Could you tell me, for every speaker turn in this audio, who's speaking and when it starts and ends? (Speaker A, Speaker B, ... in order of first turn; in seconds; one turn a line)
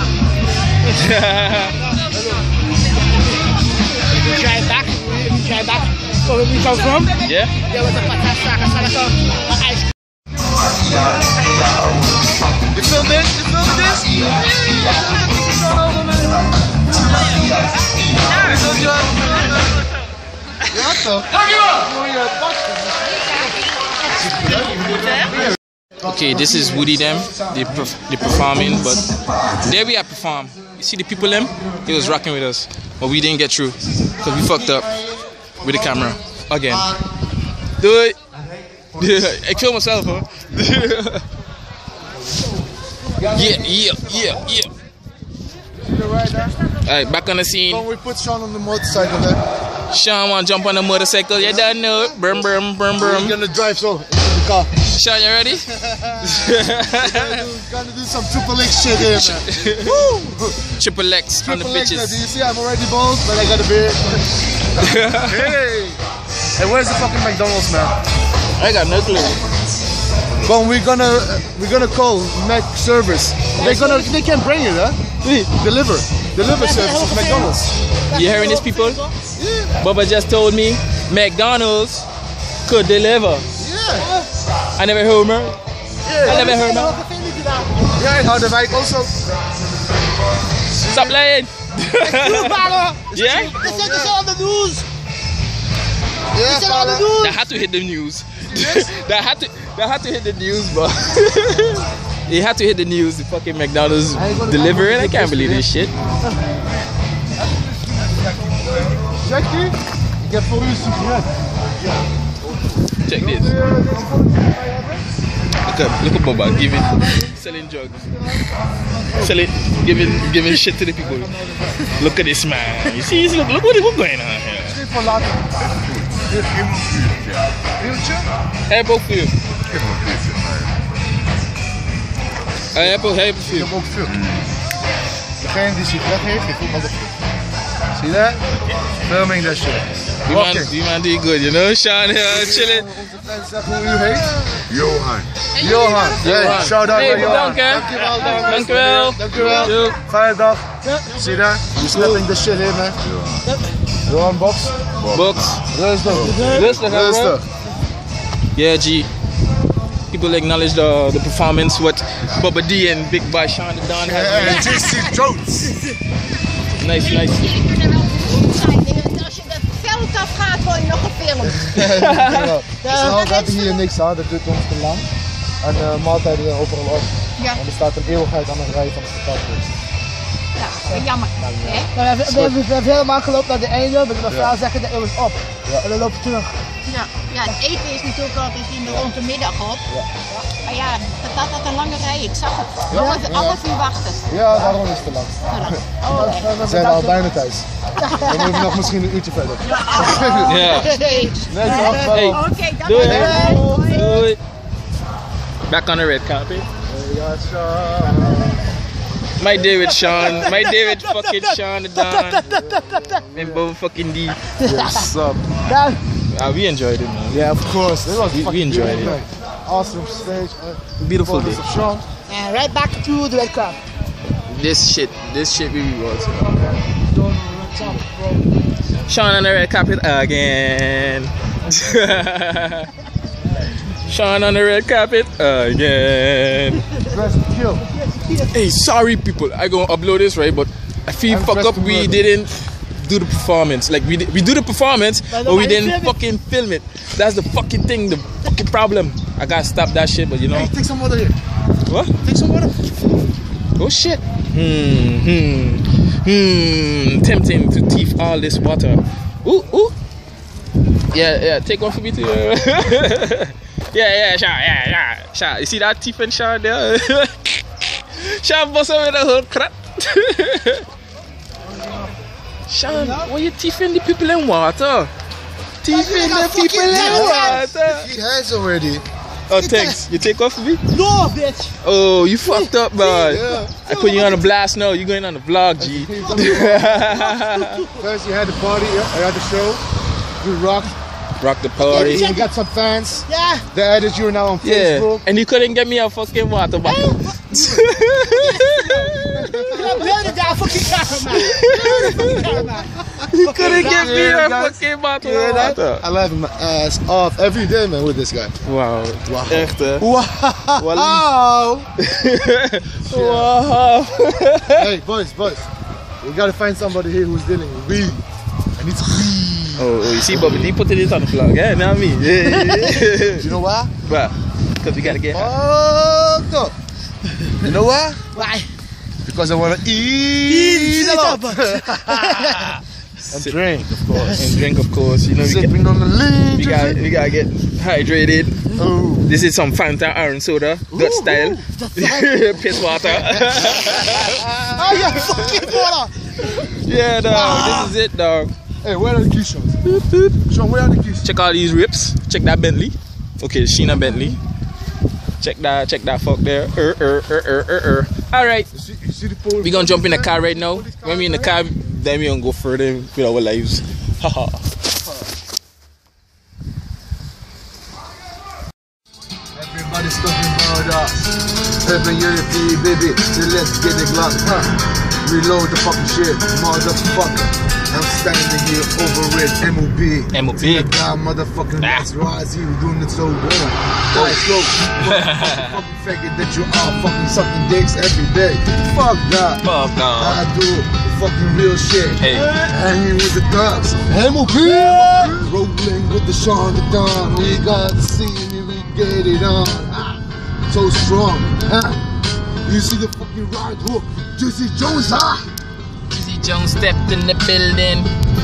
Speaker A: 0.9-1.8
Speaker B: 4.1-9.9
Speaker A: 7.2-7.5
Speaker C: 12.7-14.2
Speaker C: 14.9-16.2
Speaker A: 18.4-19.4
Speaker C: 18.4-19.1
Speaker C: 20.7-23.1
Speaker C: 24.1-25.6
Speaker A: 26.0-29.1
Speaker C: 26.3-27.5
Speaker A: 29.6-34.9
Speaker C: 35.0-35.8
Speaker A: 35.6-36.9
Speaker A: 37.8-38.2
Speaker C: 38.9-39.2
Speaker A: 39.0-41.2
Speaker C: 43.1-44.3
Speaker A: 43.3-44.7
Speaker C: 45.8-46.5
Speaker A: 46.9-47.8
Speaker C: 47.7-49.4
Speaker A: 49.9-53.3
Speaker C: 51.4-51.7
Speaker C: 53.0-54.7
Speaker A: 54.9-55.7
Speaker C: 55.7-60.7
Speaker A: 56.2-57.3
Speaker A: 59.1-59.9
Speaker A: 60.8-62.2
Speaker C: 61.4-64.2
Speaker A: 64.8-65.5
Speaker C: 64.8-66.0
Speaker C: 66.6-67.9
Speaker A: 68.6-69.4
Speaker C: 70.4-75.0
Speaker B: 73.5-74.1
Speaker A: 75.2-75.5
Speaker C: 75.5-77.6
Speaker B: 76.4-79.1
Speaker A: 78.1-79.0
Speaker C: 79.3-79.7
Speaker A: 79.8-82.1
Speaker A: 82.7-83.5
Speaker C: 83.6-84.1
Speaker B: 83.9-84.3
Speaker A: 84.8-85.6
Speaker B: 86.1-87.9
Speaker C: 86.1-86.5
Speaker A: 86.2-86.9
Speaker C: 88.0-89.2
Speaker C: 90.7-91.2
Speaker A: 90.8-93.6
Speaker B: 92.0-93.0
Speaker C: 93.1-94.1
Speaker B: 93.6-94.8
Speaker C: 96.3-97.1
Speaker B: 96.4-97.4
Speaker A: 97.2-105.9
Speaker C: 98.4-99.0
Speaker C: 104.1-105.7
Speaker C: 107.4-111.5
Speaker A: 113.0-113.5
Speaker C: 113.1-115.0
Speaker A: 115.6-118.1
Speaker C: 118.1-119.3
Speaker A: 119.2-121.3
Speaker C: 121.2-121.7
Speaker A: 121.9-124.8
Speaker C: 124.6-125.6
Speaker D: 125.8-127.4
Speaker C: 126.3-126.7
Speaker C: 127.8-128.3
Speaker A: 128.7-129.3
Speaker C: 129.7-130.2
Speaker D: 130.1-130.7
Speaker A: 132.7-133.7
Speaker C: 132.8-134.2
Speaker C: 135.4-137.1
Speaker C: 137.9-138.4
Speaker C: 139.0-140.7
Speaker A: 140.2-142.9
Speaker C: 142.2-144.8
Speaker D: 144.7-145.3
Speaker C: 145.6-153.0
Speaker A: 145.6-150.0
Speaker B: 145.9-147.3
Speaker B: 148.1-148.6
Speaker D: 149.3-149.7
Speaker B: 150.8-151.3
Speaker A: 151.9-152.2
Speaker D: 153.2-153.4
Speaker B: 153.4-153.8
Speaker C: 154.1-154.8
Speaker A: 155.1-155.6
Speaker C: 155.7-157.4
Speaker B: 156.1-156.7
Speaker D: 156.1-156.7
Speaker A: 156.5-157.4
Speaker A: 158.5-159.1
Speaker A: 160.1-164.9
Speaker C: 164.0-165.7
Speaker B: 164.4-165.1
Speaker A: 166.8-167.5
Speaker E: 167.0-171.8
Speaker C: 171.4-175.1
Speaker A: 171.9-172.4
Speaker B: 172.8-173.2
Speaker E: 173.0-173.8
Speaker C: 175.6-179.7
Speaker E: 180.6-181.9
Speaker C: 181.4-182.5
Speaker B: 181.9-186.5
Speaker C: 184.3-184.5
Speaker E: 186.9-189.8
Speaker E: 190.6-194.2
Speaker C: 192.9-193.6
Speaker B: 192.9-193.2
Speaker C: 194.3-197.7
Speaker E: 195.5-196.6
Speaker B: 196.6-197.2
Speaker B: 198.0-198.7
Speaker E: 198.1-198.6
Speaker C: 198.2-200.8
Speaker E: 199.7-204.2
Speaker B: 200.0-202.1
Speaker A: 200.4-200.9
Speaker C: 201.5-202.4
Speaker A: 202.1-204.4
Speaker C: 202.9-203.7
Speaker B: 203.0-203.7
Speaker A: 205.7-206.7
Speaker C: 206.8-208.6
Speaker A: 209.4-212.4
Speaker C: 209.4-210.6
Speaker B: 210.0-213.2
Speaker C: 212.4-213.7
Speaker A: 213.3-214.4
Speaker B: 214.6-215.1
Speaker C: 214.6-215.5
Speaker B: 215.6-216.0
Speaker A: 216.3-217.5
Speaker C: 217.3-222.0
Speaker A: 218.2-219.2
Speaker A: 221.0-221.6
Speaker B: 222.3-223.8
Speaker A: 224.5-226.6
Speaker C: 226.6-228.1
Speaker B: 227.8-228.4
Speaker A: 229.1-232.9
Speaker A: 234.0-236.8
Speaker C: 237.1-237.8
Speaker B: 238.0-238.5
Speaker A: 238.5-250.7
Speaker C: 241.3-242.3
Speaker B: 245.3-246.2
Speaker C: 250.5-251.3
Speaker A: 251.8-252.1
Speaker C: 252.2-253.0
Speaker A: 253.8-259.9
Speaker A: 261.1-267.3
Speaker A: 268.1-270.9
Speaker B: 271.7-272.1
Speaker A: 272.7-275.1
Speaker B: 272.9-273.3
Speaker A: 275.8-278.1
Speaker B: 275.9-277.7
Speaker C: 276.9-279.0
Speaker A: 279.5-280.8
Speaker B: 279.5-280.0
Speaker B: 280.9-281.7
Speaker A: 281.8-287.8
Speaker B: 282.5-284.5
Speaker C: 283.2-283.7
Speaker C: 285.8-287.0
Speaker B: 286.2-288.0
Speaker C: 288.0-289.8
Speaker C: 290.4-290.9
Speaker A: 291.4-292.3
Speaker B: 291.9-292.5
Speaker C: 291.9-295.2
Speaker B: 293.3-293.6
Speaker A: 294.6-300.0
Speaker B: 296.8-304.3
Speaker C: 299.3-300.6
Speaker A: 301.2-302.4
Speaker C: 301.7-308.5
Speaker A: 303.3-306.0
Speaker A: 308.6-310.1
Speaker C: 309.2-311.9
Speaker A: 310.8-311.2
Speaker A: 312.0-314.9
Speaker C: 312.9-313.5
Speaker C: 314.7-315.7
Speaker C: 316.2-318.2
Speaker C: 318.8-320.7
Speaker A: 319.8-323.4
Speaker C: 323.4-323.9
Speaker A: 324.0-325.5
Speaker C: 325.0-326.7
Speaker C: 327.6-328.2
Speaker B: 328.3-328.7
Speaker C: 329.2-332.8
Speaker B: 330.5-332.8
Speaker A: 333.2-333.6
Speaker C: 333.3-334.4
Speaker A: 334.1-335.7
Speaker C: 335.4-337.1
Speaker A: 336.5-338.7
Speaker C: 338.7-339.3
Speaker A: 339.2-345.5
Speaker C: 340.9-341.6
Speaker B: 341.7-342.8
Speaker C: 342.9-345.8
Speaker B: 344.8-347.9
Speaker A: 346.6-348.5
Speaker C: 348.8-349.8
Speaker A: 349.8-350.4
Speaker C: 350.4-351.3
Speaker A: 351.2-354.4
Speaker A: 355.4-358.7
Speaker C: 358.7-361.6
Speaker A: 359.6-364.8
Speaker C: 369.5-371.3
Speaker C: 371.8-389.6
Speaker A: 380.3-380.9
Speaker A: 381.8-382.1
Speaker A: 384.1-384.5
Speaker A: 385.0-385.8
Speaker A: 389.6-390.4
Speaker C: 390.1-402.0
Speaker A: 392.2-392.5
Speaker B: 394.6-395.3
Speaker C: 402.6-405.4
Speaker A: 406.1-408.1